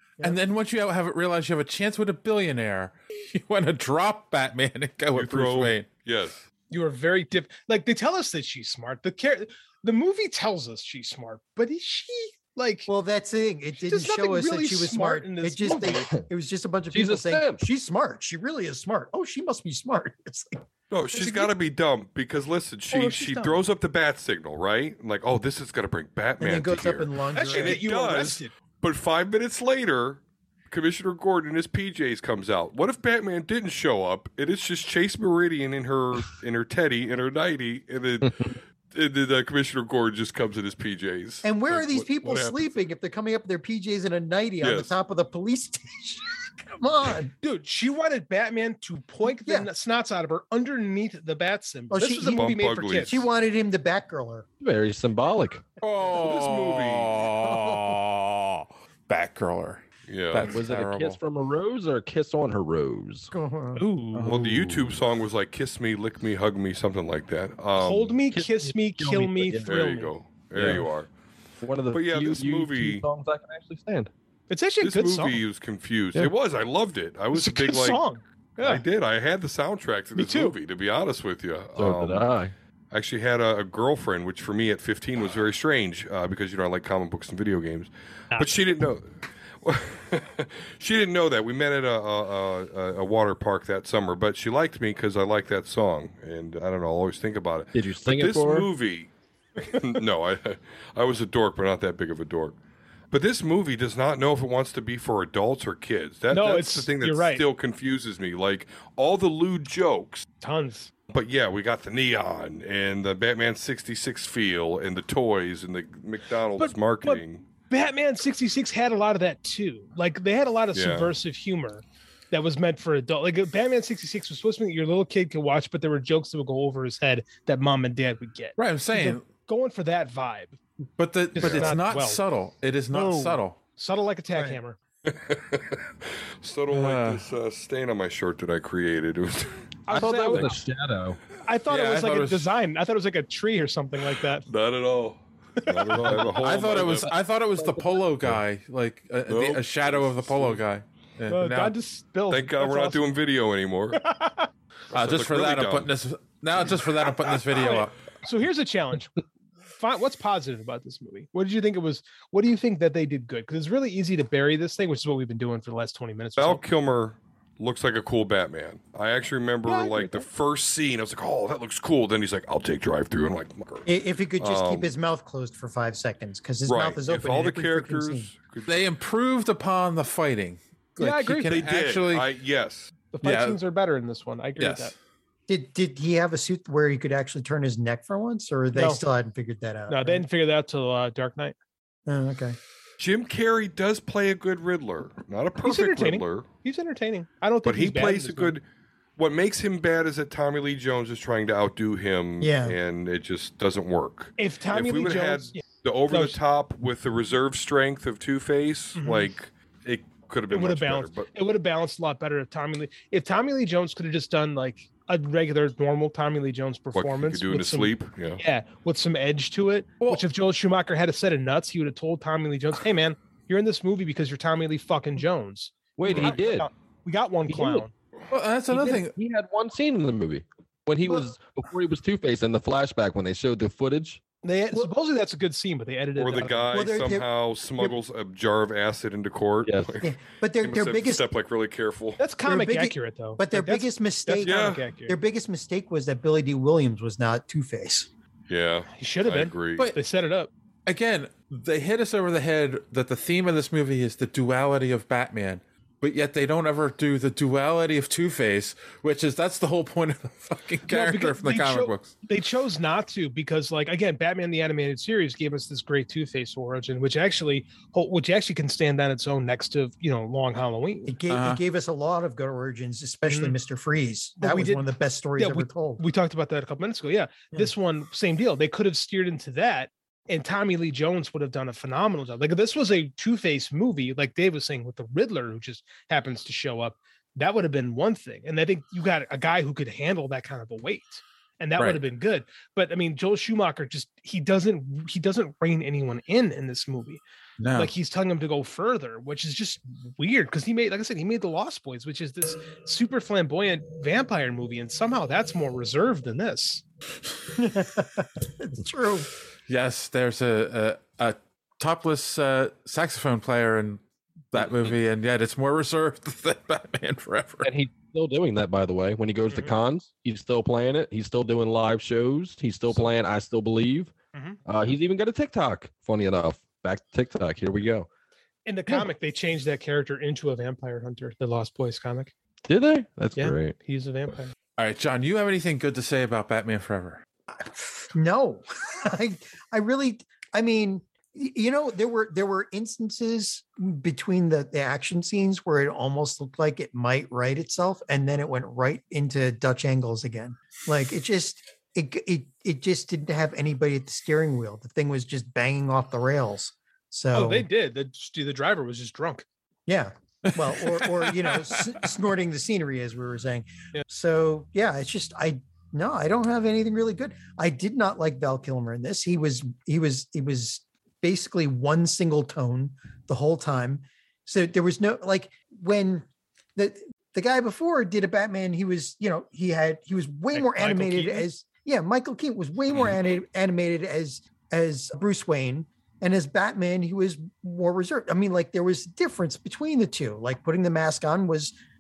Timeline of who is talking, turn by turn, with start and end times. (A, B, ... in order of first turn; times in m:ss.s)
0:00.2-0:05.9 A
0:05.1-0:06.4 B
0:06.7-0:12.9 C
0:12.9-0:20.6 D
0:13.8-0:16.1 C
0:15.8-0:16.3 E
0:16.9-0:17.6 E
0:20.9-0:42.8 B
0:21.2-0:21.5 C
0:22.9-0:23.6 C
0:26.4-0:28.2 D
0:27.4-0:28.5 C
0:38.2-0:38.6 E
0:41.4-0:47.3 D
0:44.6-0:44.9 B
0:47.4-0:53.2 C
0:49.3-0:49.7 D
0:51.9-0:54.5 D
0:52.3-0:53.2 B
0:54.6-0:55.7 E
0:55.8-1:01.2 A
0:56.1-0:57.2 B
0:57.4-0:58.0 D
1:00.1-1:00.6 B
1:00.4-1:03.3 E
1:03.3-1:03.8 D
1:03.8-1:04.3 C
1:04.1-1:05.0 A
1:04.3-1:08.2 B
1:07.8-1:10.1 C
1:08.3-1:09.8 E
1:09.7-1:11.1 B
1:10.5-1:10.9 E
1:11.6-1:14.1 E
1:11.9-1:13.0 B
1:14.5-1:15.4 C
1:14.8-1:18.0 B
1:17.3-1:18.8 C
1:18.6-1:22.3 B
1:20.2-1:20.6 C
1:21.8-1:22.5 E
1:22.9-1:29.1 B
1:29.6-1:39.1 B
1:37.7-1:38.7 E
1:39.7-1:42.6 B
1:43.1-1:50.3 B
1:46.3-1:47.4 C
1:50.4-1:50.9 C
1:51.1-1:57.4 B
1:56.6-2:10.6 C
2:00.7-2:01.1 B
2:08.6-2:09.2 A
2:11.0-2:13.6 A
2:11.4-2:12.2 C
2:11.4-2:11.8 B
2:12.9-2:14.8 C
2:15.1-2:15.8 B
2:16.4-2:19.6 B
2:16.7-2:17.2 A
2:19.9-2:20.6 C
2:19.9-2:21.2 E
2:21.4-2:24.4 C
2:21.7-2:22.5 A
2:24.5-2:27.1 B
2:25.6-2:26.3 C
2:26.1-2:31.8 A
2:27.6-2:28.4 E
2:29.3-2:30.6 B
2:31.3-2:33.1 C
2:32.3-2:34.0 B
2:33.9-2:34.5 C
2:34.9-2:35.9 B
2:34.9-2:38.0 A
2:37.6-2:46.6 C
2:46.4-2:54.9 B
2:49.7-2:50.3 C
2:53.8-2:58.3 D
2:56.7-2:58.8 B
2:58.7-3:02.3 A
3:01.0-3:01.6 C
3:01.5-3:02.9 B
3:03.1-3:04.9 C
3:03.2-3:03.6 A
3:04.6-3:05.0 A
3:05.5-3:10.2 D
3:08.7-3:09.0 C
3:09.9-3:11.6 C
3:12.1-3:12.6 D
3:13.0-3:16.5 B
3:15.6-3:18.6 C
3:17.6-3:18.6 B
3:19.2-3:31.3 B
3:22.4-3:22.8 D
3:24.4-3:26.4 C
3:29.0-3:29.3 C
3:30.5-3:47.9 C
3:37.0-3:38.4 B
3:46.0-3:46.7 E
3:46.1-3:46.3 B
3:47.5-3:47.9 E
3:48.3-3:49.2 A
3:48.7-3:54.2 E
3:54.4-3:56.7 C
3:56.2-4:00.1 B
3:56.7-3:58.0 D
3:59.6-4:00.0 E
4:00.0-4:01.2 D
4:00.6-4:02.2 B
4:02.2-4:05.2 C
4:02.4-4:08.1 D
4:04.4-4:04.8 B
4:08.5-4:09.9 B
4:09.0-4:10.5 C
4:10.9-4:22.1 A
4:20.9-4:31.1 C
4:31.1-4:36.0 D
4:31.3-4:31.6 A
4:33.3-4:33.6 C
4:34.4-4:34.9 C
4:35.4-4:57.2 C
4:51.8-4:52.0 A
4:57.6-4:57.9 A
4:57.8-5:06.8 C
5:07.5-5:09.3 D
5:09.7-5:14.0 A
5:14.5-5:17.7 A
5:14.6-5:14.9 E
5:17.6-5:24.1 E
5:19.5-5:19.7 C
5:24.7-5:28.1 E
5:28.7-5:32.3 C
5:32.7-5:33.8 E
5:33.4-5:34.5 C
5:34.8-5:37.2 A
5:38.1-5:57.7 D
5:57.3-5:59.4 C
5:59.9-6:31.8 D
6:00.5-6:01.9 A
6:20.5-6:21.6 C